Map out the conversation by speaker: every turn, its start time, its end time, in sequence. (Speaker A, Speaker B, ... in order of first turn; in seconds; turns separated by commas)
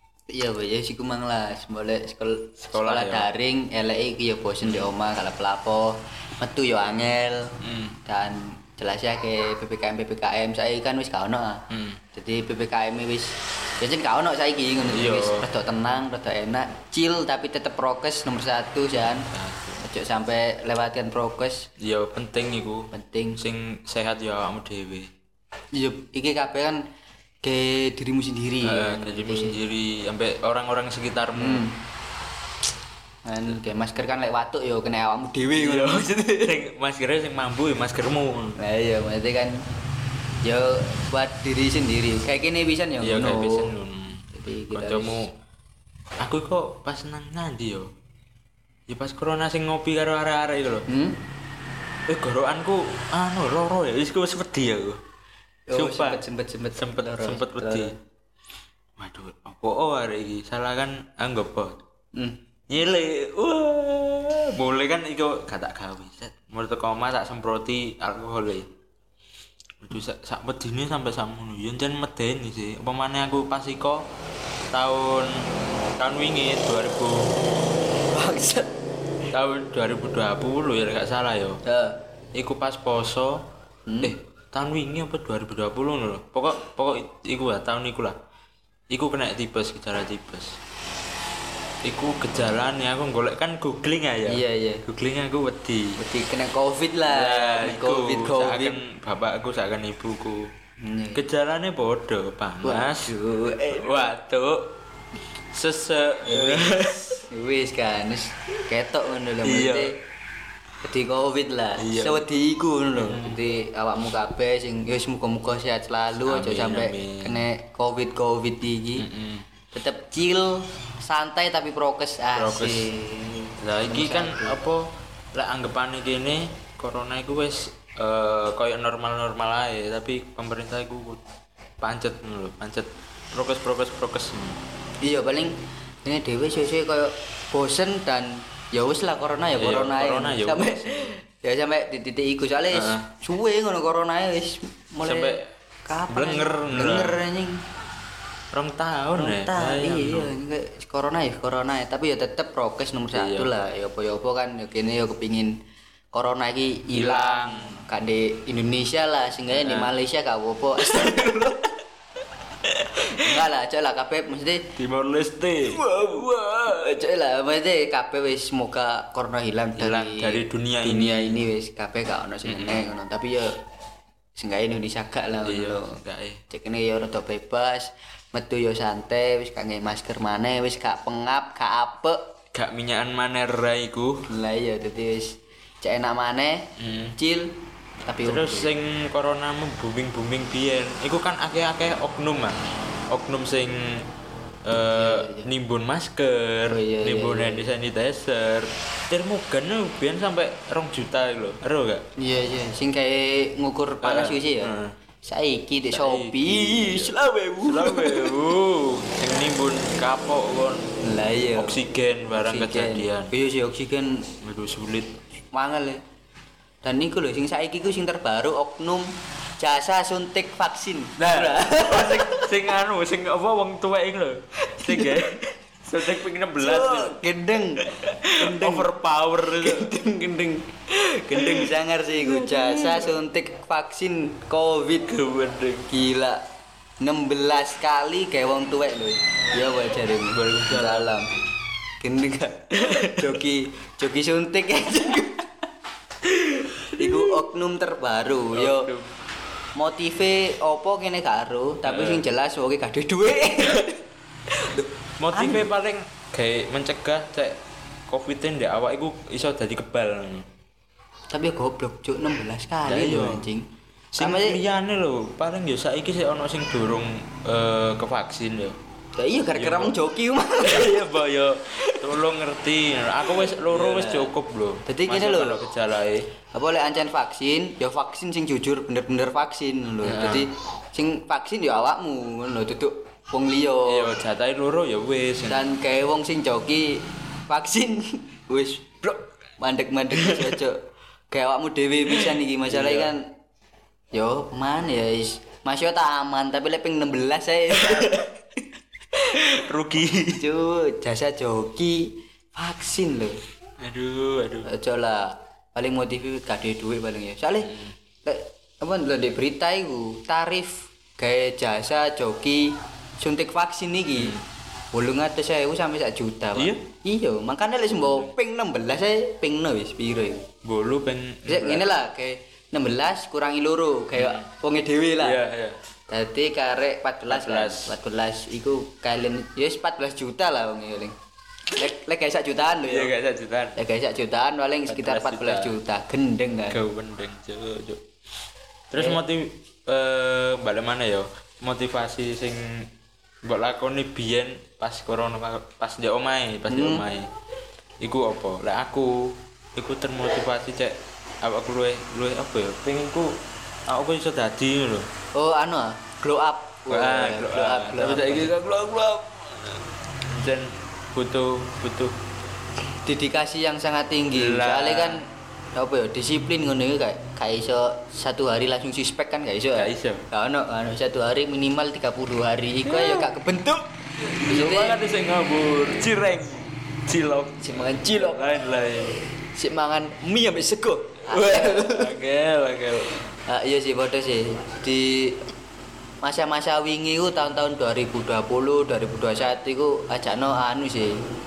Speaker A: 0.3-11.6, Speaker B: 2.6-3.3, Speaker B: 7.6-8.0, Speaker B: 11.7-12.0, Speaker A: 12.1-19.3, Speaker B: 14.9-15.4, Speaker B: 19.3-19.8, Speaker A: 19.8-21.7, Speaker B: 21.8-25.1, Speaker A: 22.9-23.4, Speaker A: 25.7-26.8, Speaker A: 27.4-29.6, Speaker B: 28.6-31.6, Speaker A: 31.4-31.8, Speaker A: 33.2-36.6, Speaker B: 35.5-38.6, Speaker A: 38.6-39.5, Speaker A: 40.4-43.7, Speaker B: 43.0-45.3, Speaker A: 44.3-45.2, Speaker B: 46.2-47.9, Speaker B: 48.9-50.9, Speaker A: 50.9-51.2, Speaker B: 52.1-55.0, Speaker A: 55.7-58.0, Speaker B: 55.7-56.2, Speaker B: 56.7-57.9, Speaker B: 59.0-61.8, Speaker B: 62.7-68.7, Speaker B: 69.8-74.1, Speaker B: 74.7-77.4, Speaker A: 78.1-78.7, Speaker B: 79.3-81.6, Speaker A: 81.6-82.0, Speaker B: 82.3-83.4, Speaker A: 83.9-84.1, Speaker B: 84.0-88.2, Speaker B: 88.9-90.5, Speaker B: 91.8-96.0, Speaker A: 94.3-94.8, Speaker A: 96.0-98.8, Speaker B: 97.1-100.5, Speaker A: 100.8-101.2, Speaker B: 101.1-103.1, Speaker A: 102.6-104.0, Speaker B: 103.7-104.7, Speaker B: 105.5-107.2, Speaker A: 106.2-110.0, Speaker B: 109.4-109.9, Speaker A: 110.8-119.0, Speaker B: 111.8-112.2, Speaker B: 113.0-113.4, Speaker B: 116.2-117.5, Speaker B: 119.0-119.5, Speaker A: 119.7-124.6, Speaker B: 122.3-122.9, Speaker B: 123.6-131.2, Speaker B: 131.8-134.6, Speaker A: 135.0-147.6, Speaker B: 139.6-141.2, Speaker B: 142.7-143.1, Speaker B: 145.0-145.5, Speaker B: 146.1-147.2, Speaker B: 148.5-150.3, Speaker A: 149.1-155.5, Speaker B: 153.1-153.5, Speaker A: 156.1-161.7, Speaker B: 156.9-157.8, Speaker B: 159.5-159.9, Speaker B: 162.6-163.3, Speaker A: 163.0-164.7, Speaker B: 164.8-166.8, Speaker A: 165.7-173.6, Speaker B: 169.8-171.4, Speaker B: 172.4-172.8, Speaker A: 174.3-176.0, Speaker B: 175.4-176.4, Speaker A: 176.5-182.2, Speaker B: 182.5-184.3, Speaker A: 184.3-188.7, Speaker B: 186.8-187.1, Speaker B: 188.2-192.6, Speaker B: 193.1-194.1, Speaker B: 194.7-202.0, Speaker A: 194.7-195.5, Speaker A: 196.7-197.7, Speaker A: 202.2-204.7, Speaker B: 204.0-204.9, Speaker A: 205.2-208.3, Speaker B: 205.9-210.9, Speaker A: 211.0-211.8, Speaker B: 211.5-213.3, Speaker A: 212.3-214.3, Speaker B: 214.4-215.1, Speaker A: 215.5-216.0, Speaker A: 216.8-219.1, Speaker A: 219.6-222.5, Speaker B: 221.2-227.2, Speaker A: 224.6-225.3, Speaker A: 226.6-235.1, Speaker B: 227.8-229.9, Speaker B: 231.3-233.2, Speaker B: 235.1-235.9, Speaker A: 235.9-236.4, Speaker A: 237.0-241.3, Speaker B: 240.3-241.1, Speaker A: 242.0-245.5, Speaker B: 242.7-243.4, Speaker A: 246.5-248.9, Speaker B: 246.6-247.4, Speaker B: 248.5-249.1, Speaker A: 249.8-254.0, Speaker B: 251.8-252.2, Speaker A: 254.5-255.7, Speaker B: 255.2-260.5, Speaker A: 261.3-264.6, Speaker B: 262.8-263.5, Speaker B: 264.1-268.8, Speaker A: 269.2-271.1, Speaker B: 269.5-270.0, Speaker B: 270.6-276.3, Speaker A: 271.7-272.1, Speaker A: 273.2-274.3, Speaker A: 274.8-275.6, Speaker A: 276.5-284.2, Speaker B: 280.0-280.5, Speaker B: 283.9-285.6, Speaker A: 285.4-290.8, Speaker B: 290.1-290.6, Speaker A: 291.3-293.3, Speaker B: 292.1-293.1, Speaker A: 294.1-298.3, Speaker B: 297.8-298.2, Speaker B: 299.1-300.4, Speaker A: 300.2-303.4, Speaker B: 303.8-304.7, Speaker A: 304.6-314.4, Speaker B: 307.7-307.9, Speaker B: 314.2-314.4, Speaker A: 314.9-320.5, Speaker B: 316.6-316.8, Speaker B: 317.9-318.3, Speaker B: 320.6-321.9, Speaker A: 321.4-325.4, Speaker B: 324.1-324.5, Speaker B: 325.2-325.8, Speaker A: 326.1-331.1, Speaker B: 327.3-327.9, Speaker A: 331.7-333.1, Speaker B: 332.8-333.8, Speaker A: 333.8-336.8, Speaker B: 334.9-335.8, Speaker B: 336.7-338.0, Speaker B: 338.9-342.9, Speaker A: 338.9-339.2, Speaker B: 343.4-347.3, Speaker A: 346.7-347.0, Speaker B: 348.0-353.3, Speaker B: 353.9-355.1, Speaker A: 355.3-358.5, Speaker B: 356.9-362.2, Speaker A: 363.0-375.0, Speaker B: 364.3-365.2, Speaker B: 369.8-370.2, Speaker B: 372.9-373.3, Speaker B: 374.2-379.2, Speaker A: 377.6-378.4, Speaker A: 379.4-382.1, Speaker B: 381.3-383.2, Speaker A: 383.1-385.5, Speaker A: 386.2-391.2